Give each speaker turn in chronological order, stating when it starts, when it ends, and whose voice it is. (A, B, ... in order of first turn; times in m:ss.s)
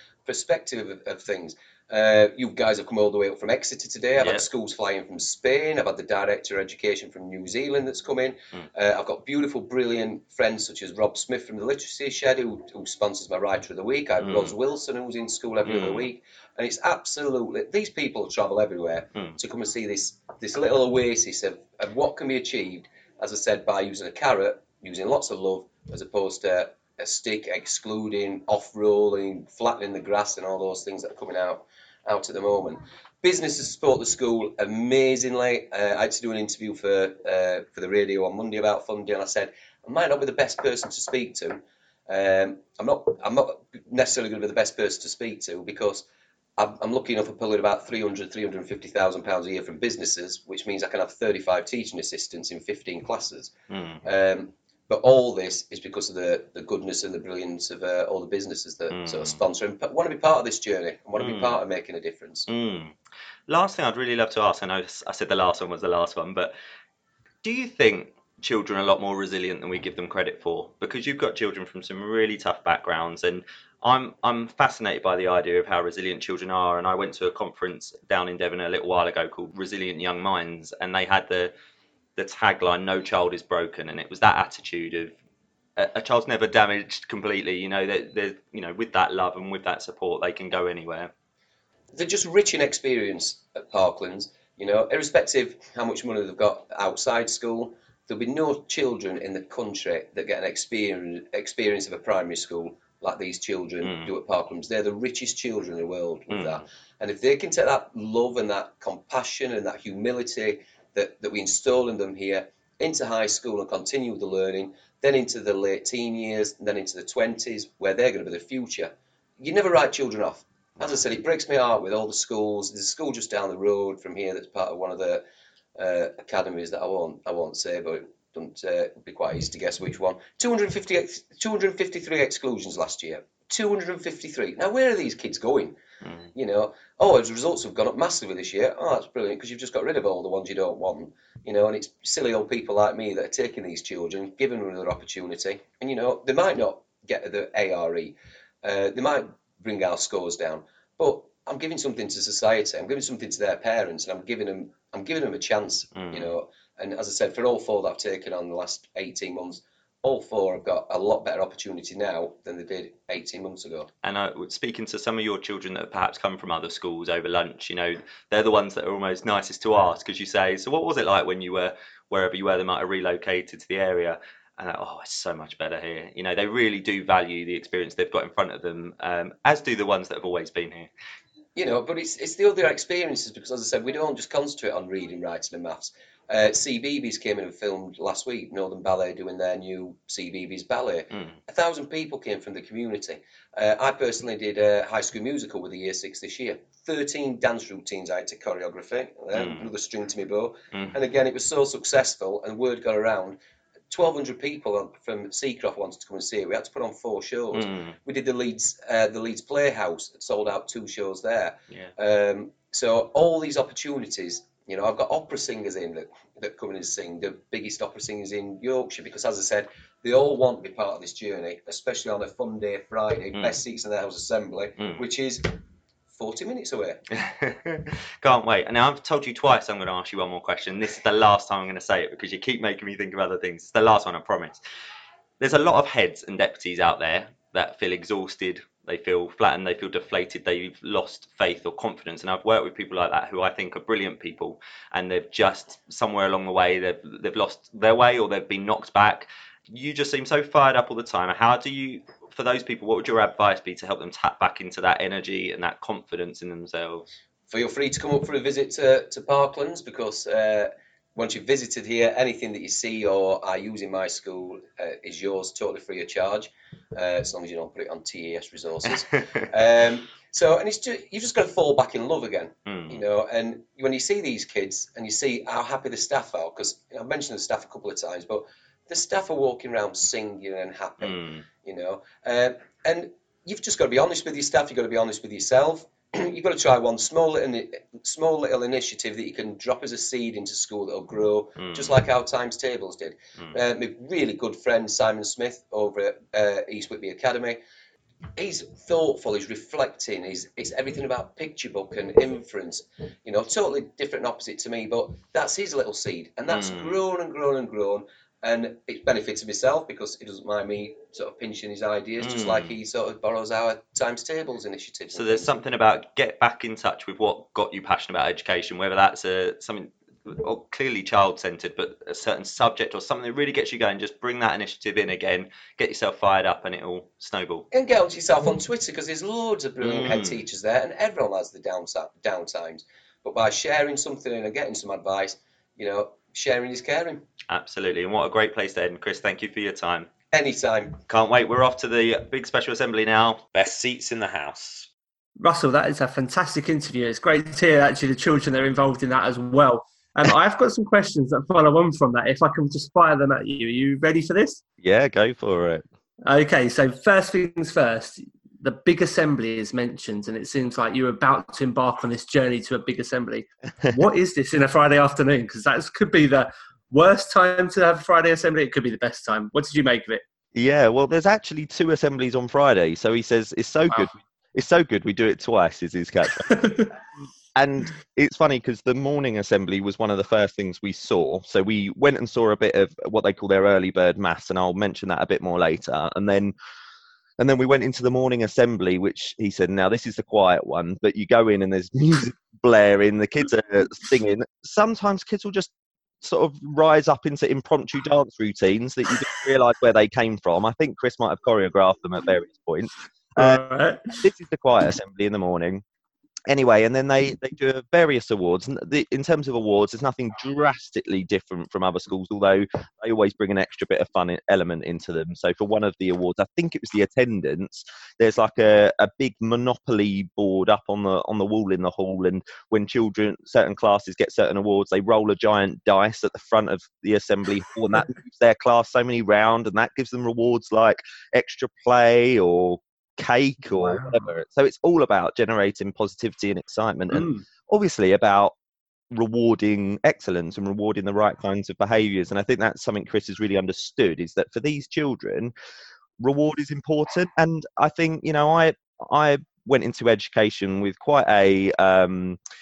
0:00.2-0:53.5 A
0:14.2-0:14.5 B
0:15.6-0:16.0 B
0:53.7-0:54.0 B
0:54.0-1:02.5 A
0:58.9-0:59.4 B
1:01.2-1:01.6 B
1:02.5-1:02.9 B
1:03.5-1:06.5 B
1:07.4-1:21.5 B
1:22.2-1:25.2 B
1:25.8-1:31.1 B
1:31.9-2:05.2 A
1:43.8-1:44.1 B
1:46.3-1:46.6 B
2:05.8-2:15.8 A
2:16.3-2:43.9 A
2:35.9-2:36.3 B
2:44.0-3:00.9 B
3:01.6-3:23.4 A
3:19.3-3:19.6 B
3:23.9-3:45.5 A
3:27.5-3:27.9 B
3:46.1-3:47.0 A
3:47.1-3:54.6 B
3:55.4-4:17.1 B
4:17.5-4:57.6 A
4:32.6-4:33.0 B
4:41.0-4:41.4 B
4:51.6-4:51.9 B
4:58.4-5:15.5 A
5:06.5-5:07.0 B
5:12.2-5:12.7 B
5:15.1-5:27.7 B
5:27.7-5:37.2 A
5:29.8-5:30.4 B
5:37.5-5:40.1 B
5:40.3-5:41.0 A
5:41.1-5:44.9 B
5:45.4-5:54.6 C
5:54.8-5:55.8 B
5:56.2-6:10.2 C
6:10.5-6:16.6 B
6:13.9-6:14.2 C
6:16.4-6:16.9 C
6:17.5-6:26.5 B
6:27.4-6:35.7 B
6:36.2-6:45.8 B
6:43.4-6:44.2 C
6:46.5-7:18.5 B
7:13.7-7:14.2 C
7:17.1-7:17.4 C
7:19.1-7:25.5 B
7:26.2-7:32.4 B